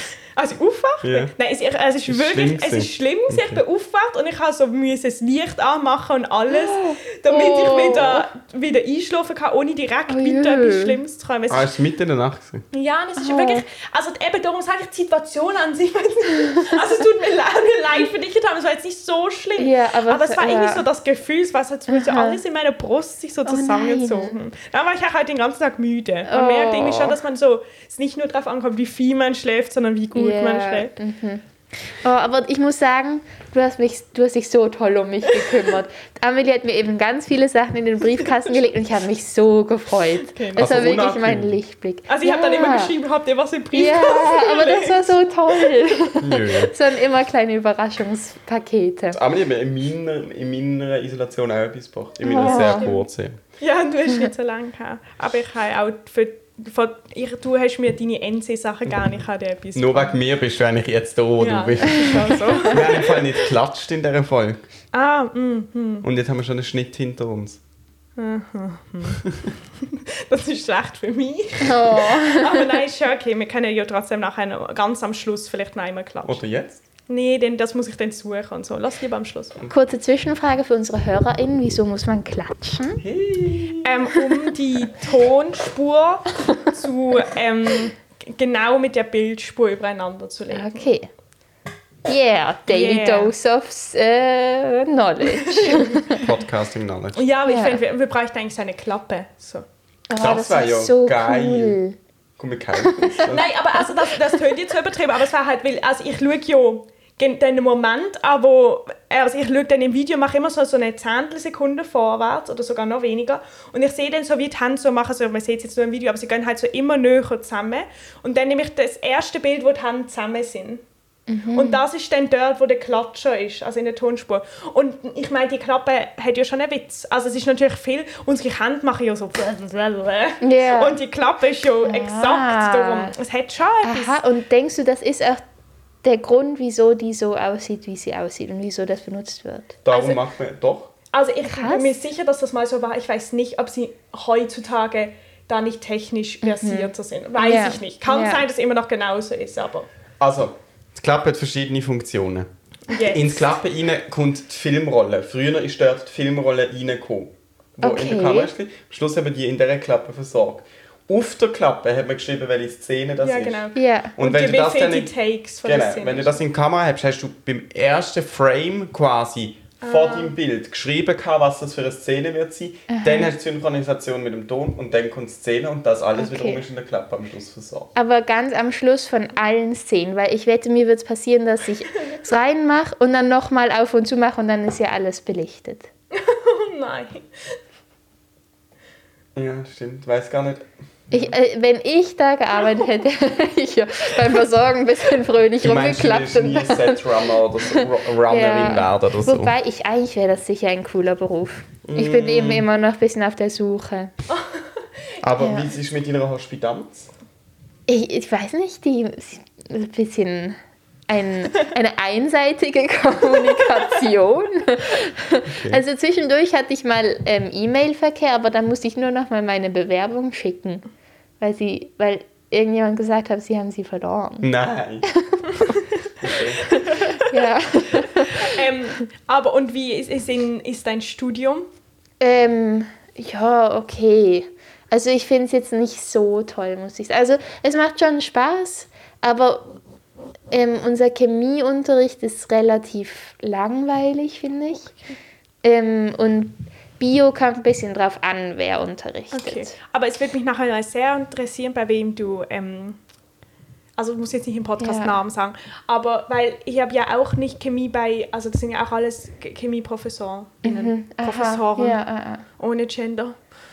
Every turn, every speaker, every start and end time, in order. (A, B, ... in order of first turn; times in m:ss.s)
0:00.3-0:11.7 A
0:01.0-0:01.3 B
0:02.1-0:03.6 B
0:06.5-0:08.2 C
0:10.1-0:11.0 C
0:11.5-0:12.6 B
0:12.7-0:30.9 A
0:13.2-0:13.6 C
0:16.4-0:17.0 C
0:19.6-0:20.8 C
0:21.9-0:22.4 C
0:23.4-0:24.3 C
0:26.2-0:27.2 C
0:30.1-0:42.9 C
0:40.2-0:40.9 A
0:40.6-0:41.6 B
0:42.1-0:46.0 A
0:43.7-0:49.2 C
0:46.2-0:46.7 B
0:49.1-0:53.4 B
0:52.2-0:52.9 C
0:52.2-0:53.0 A
0:53.6-1:00.2 A
0:59.7-1:04.6 B
1:01.4-1:03.5 A
1:01.9-1:02.9 C
1:04.9-1:06.0 A
1:06.0-1:07.6 B
1:08.2-1:09.2 A
1:09.9-1:16.4 A
1:11.6-1:12.8 C
1:16.2-1:16.8 B
1:17.1-1:19.6 A
1:19.7-1:23.0 C
1:23.0-1:23.9 B
1:23.8-1:30.9 A
1:30.5-1:31.1 C
1:32.0-1:36.3 C
1:32.7-1:33.3 A
1:35.4-1:36.1 A
1:36.1-1:37.2 B
1:37.1-1:39.6 A
1:37.4-1:37.8 C
1:40.1-1:42.0 C
1:40.2-1:41.8 B
1:42.4-1:43.4 B
1:42.8-1:44.5 C
1:43.2-2:00.8 A
2:01.3-2:01.8 C
2:01.5-2:14.2 A
2:10.4-2:11.0 C
2:11.8-2:13.1 C
2:13.8-2:15.4 C
2:16.0-2:19.8 C
2:19.8-2:20.9 B
2:19.9-2:20.2 A
2:21.1-2:29.9 A
2:21.4-2:22.0 C
2:26.4-2:28.4 C
2:30.2-2:32.5 B
2:32.9-2:33.5 A
2:33.0-2:57.9 B
2:37.8-2:38.5 C
2:43.2-2:46.4 A
2:43.7-2:44.1 C
2:49.8-2:50.3 A
2:52.9-2:53.3 C
2:56.2-2:56.6 C
2:58.0-3:05.9 C
3:06.1-3:07.6 A
3:09.3-3:11.3 B
3:11.1-3:24.1 C
3:15.6-3:19.5 B
3:21.8-3:22.7 B
3:24.3-3:24.6 A
3:25.2-3:27.1 B
3:25.4-3:25.7 C
3:27.9-3:40.8 C
3:35.5-3:35.8 B
3:41.4-3:44.5 C
3:44.4-3:45.1 B
3:45.1-3:45.5 C
3:45.5-3:45.8 A
3:46.2-3:46.7 B
3:46.6-3:47.3 A
3:46.7-3:48.5 C
3:47.9-3:51.7 A
3:52.2-3:59.8 C
4:00.5-4:04.9 C
4:05.6-4:09.7 C
4:09.3-4:13.0 A
4:14.0-4:22.0 A
4:14.8-4:15.2 C
4:20.6-4:22.4 C
4:22.6-4:23.4 A